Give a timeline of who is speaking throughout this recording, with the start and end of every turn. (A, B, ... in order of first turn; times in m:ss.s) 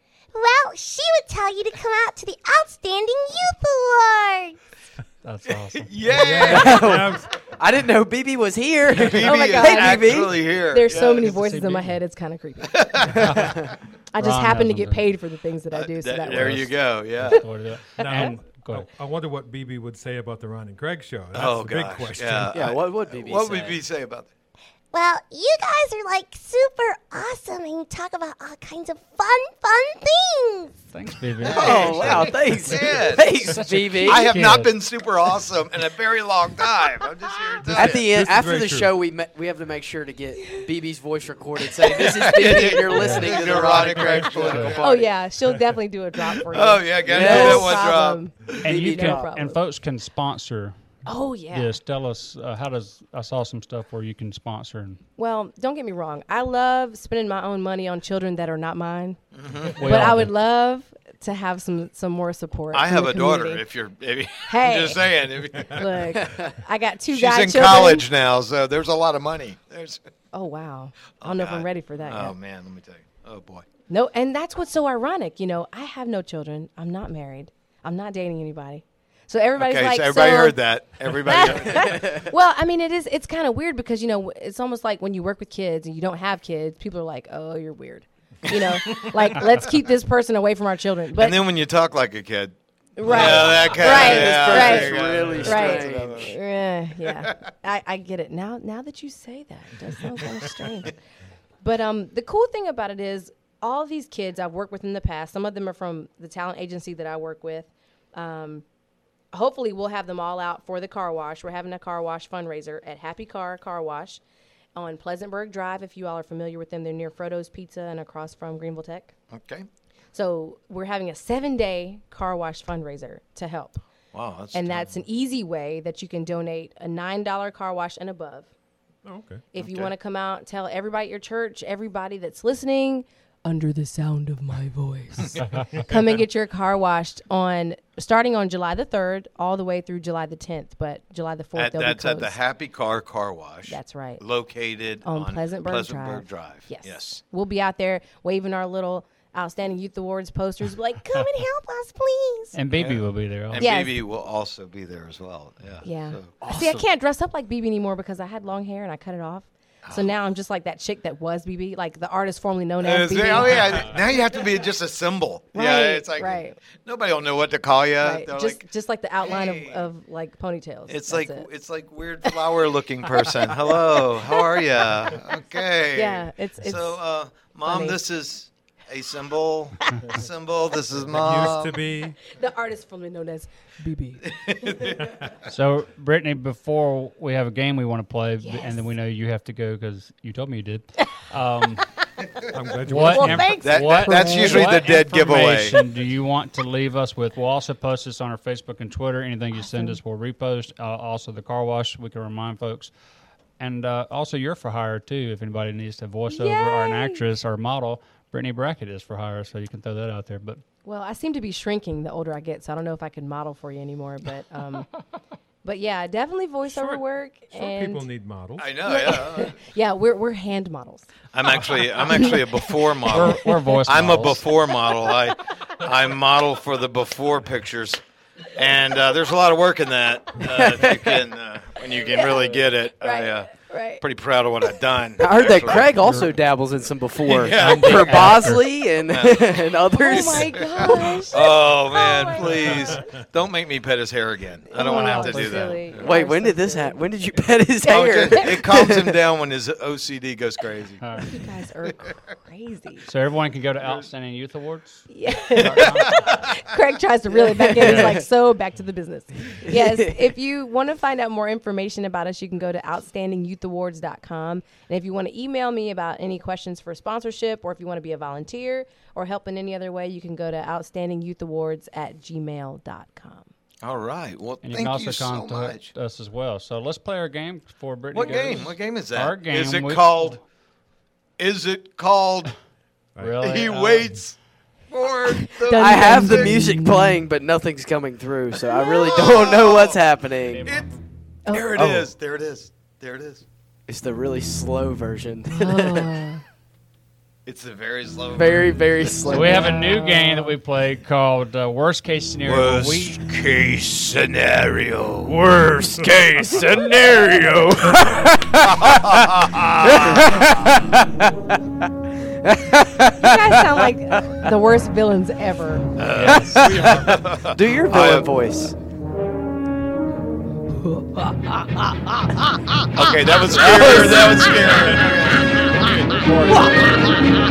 0:00.3-0:04.6 A
0:05.2-0:05.9 B
0:05.5-0:07.0 C
0:06.0-0:07.3 D
0:06.4-0:10.3 E
0:08.9-0:11.3 C
0:09.2-0:13.0 F
0:11.2-0:12.0 B
0:12.7-0:13.4 C
0:13.1-0:13.7 E
0:13.2-0:15.0 B
0:14.1-0:16.7 F
0:15.7-0:17.4 C
0:16.2-0:18.8 B
0:18.0-0:22.5 D
0:21.3-0:24.3 C
0:22.5-0:23.8 E
0:24.9-0:30.8 A
0:30.9-0:32.9 B
0:31.4-0:33.4 C
0:31.4-0:34.3 E
0:33.4-0:34.7 B
0:34.0-0:38.1 C
0:37.6-0:38.9 D
0:37.7-0:45.1 E
0:41.8-0:45.0 C
0:42.9-0:43.4 B
0:44.4-0:44.7 B
0:44.8-0:49.6 F
0:46.5-0:48.6 C
0:47.1-0:47.8 E
0:48.6-0:49.2 E
0:48.6-0:50.7 B
0:51.0-0:51.8 F
0:51.5-0:55.0 B
0:55.2-0:59.2 F
0:59.3-0:59.9 C
0:59.8-1:00.3 B
0:59.8-1:03.6 F
1:02.7-1:06.2 C
1:04.4-1:05.0 F
1:05.6-1:08.0 F
1:06.2-1:06.5 E
1:07.1-1:10.0 C
1:10.3-1:12.4 F
1:11.2-1:13.6 C
1:13.9-1:31.4 F
1:19.6-1:22.2 C
1:21.4-1:22.3 E
1:28.5-1:29.2 C
1:31.1-1:36.3 C
1:33.0-1:41.0 F
1:33.0-1:36.3 E
1:37.0-1:37.4 C
1:41.6-1:48.6 F
1:49.3-1:54.2 F
1:54.7-1:59.1 F
1:59.3-1:59.7 C
2:00.1-2:03.8 F
2:04.1-2:04.9 C
2:04.5-2:08.5 F
2:09.0-2:09.4 D
2:09.5-2:22.4 F
2:09.5-2:09.9 C
2:21.5-2:27.2 C
2:23.7-2:24.2 F
2:25.0-2:32.6 F
2:32.5-2:33.7 B
2:32.7-2:36.4 C
2:33.6-2:34.0 F
2:35.8-2:43.8 F
2:36.4-2:36.8 E
2:39.8-2:40.1 C
2:42.8-2:48.6 C
2:45.5-2:46.6 F
2:48.0-2:51.5 F
2:49.2-2:49.9 C
2:50.9-3:01.8 C
2:53.2-2:54.4 F
2:55.9-2:57.0 F
2:57.6-2:58.0 F
3:01.1-3:02.2 D
3:02.3-3:05.1 F
3:04.2-3:05.0 C
3:05.5-3:11.8 B
3:08.4-3:08.8 F
3:12.5-3:13.5 D
3:12.9-3:22.9 B
3:13.0-3:15.0 F
3:13.6-3:15.8 C
3:19.5-3:20.0 F
3:23.6-3:30.6 B
3:26.3-3:27.2 F
3:30.8-3:34.9 F
3:35.6-3:38.1 F
3:36.7-3:38.7 D
3:38.6-3:39.6 C
3:38.8-3:41.1 F
3:41.3-3:48.0 C
3:42.1-3:42.4 F
3:43.0-3:44.4 B
3:48.5-3:56.0 C
3:50.5-3:51.2 E
3:52.0-3:54.0 F
3:55.2-4:01.0 E
3:56.0-3:56.3 B
3:57.2-4:06.1 C
3:57.4-3:58.7 B
4:00.0-4:03.1 F
4:04.7-4:07.0 F
4:04.8-4:05.7 B
4:06.0-4:09.2 E
4:07.8-4:08.6 F
4:07.8-4:11.0 C
4:11.0-4:11.4 B
4:11.3-4:13.1 F
4:13.0-4:16.3 B
4:13.8-4:14.1 C
4:15.1-4:33.5 F
4:15.6-4:16.6 C
4:17.4-4:18.2 E
4:17.8-4:18.2 B
4:19.6-4:20.3 E
4:33.8-4:35.9 C
4:34.6-4:40.4 B
4:38.1-4:40.4 C
4:41.4-4:42.5 C
4:43.2-4:44.1 B
4:43.3-4:44.4 C
4:44.9-4:46.6 C
4:45.4-4:47.2 F
4:45.7-4:50.6 E
4:48.8-4:50.1 C
4:50.5-4:50.9 B
4:50.6-4:50.9 C
4:51.4-4:51.9 F
4:51.5-4:53.4 C
4:51.8-4:52.0 E
4:53.9-4:56.1 E
4:55.5-4:56.4 F
4:57.4-4:59.7 C
4:58.3-4:59.8 E
4:59.3-5:03.2 B
5:02.4-5:05.4 C
5:05.2-5:11.3 E
5:08.6-5:10.7 C
5:12.4-5:13.8 E
5:13.2-5:15.9 F
5:16.0-5:18.3 C
5:16.1-5:18.7 E
5:21.0-5:21.2 F
5:22.9-5:25.6 C
5:23.5-5:24.7 E
5:26.1-5:26.8 B